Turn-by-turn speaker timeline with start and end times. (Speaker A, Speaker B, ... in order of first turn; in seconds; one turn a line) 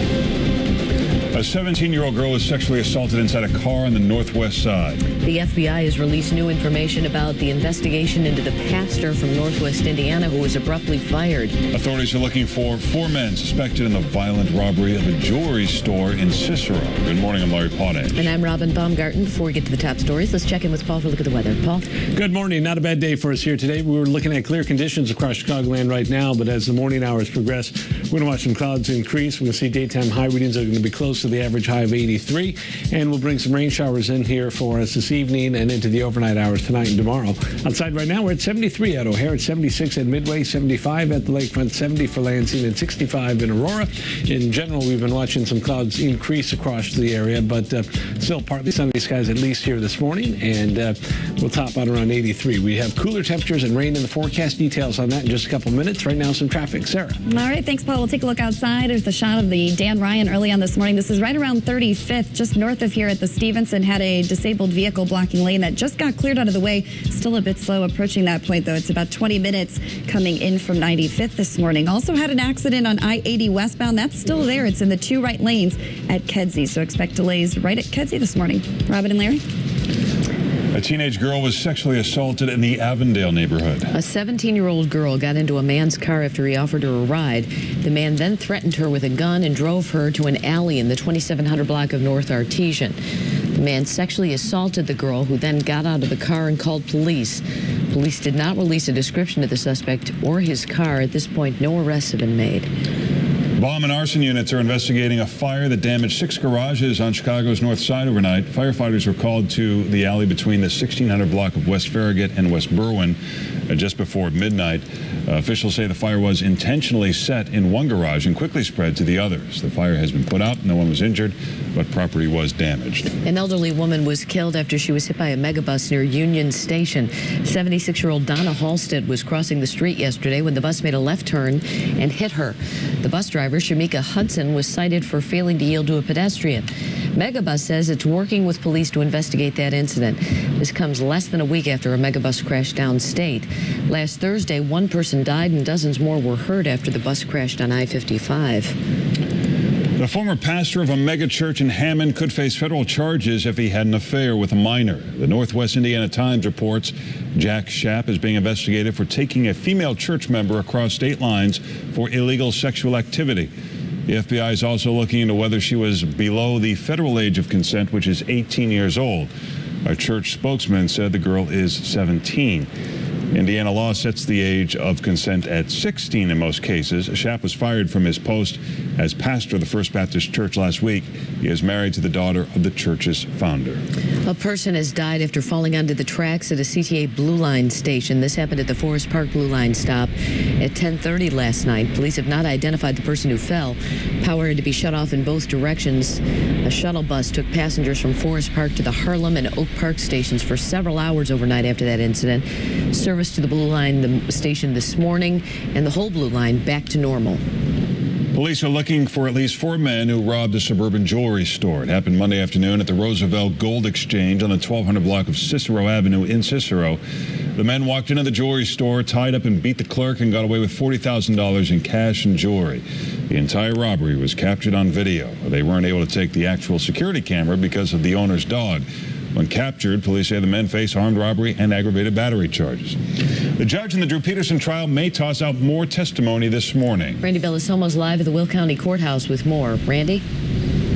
Speaker A: 1.3-5.0
Speaker B: 5.2-11.6
Speaker A: 11.7-18.1
Speaker B: 18.1-21.9
Speaker C: 22.2-57.2
Speaker D: 57.3-79.4
Speaker A: 80.7-83.9
Speaker B: 83.9-93.0
Speaker B: 93.5-102.7
Speaker A: 103.6-113.2
Speaker A: 113.7-123.1
Speaker B: 123.2-148.7
Speaker A: 150.0-163.5
Speaker A: 164.1-169.3
Speaker A: 169.8-172.7
Speaker A: 173.3-183.8
Speaker B: 184.2-207.4
Speaker A: 208.3-217.0
Speaker A: 217.6-233.0
Speaker A: 233.6-237.2
Speaker B: 237.2-240.2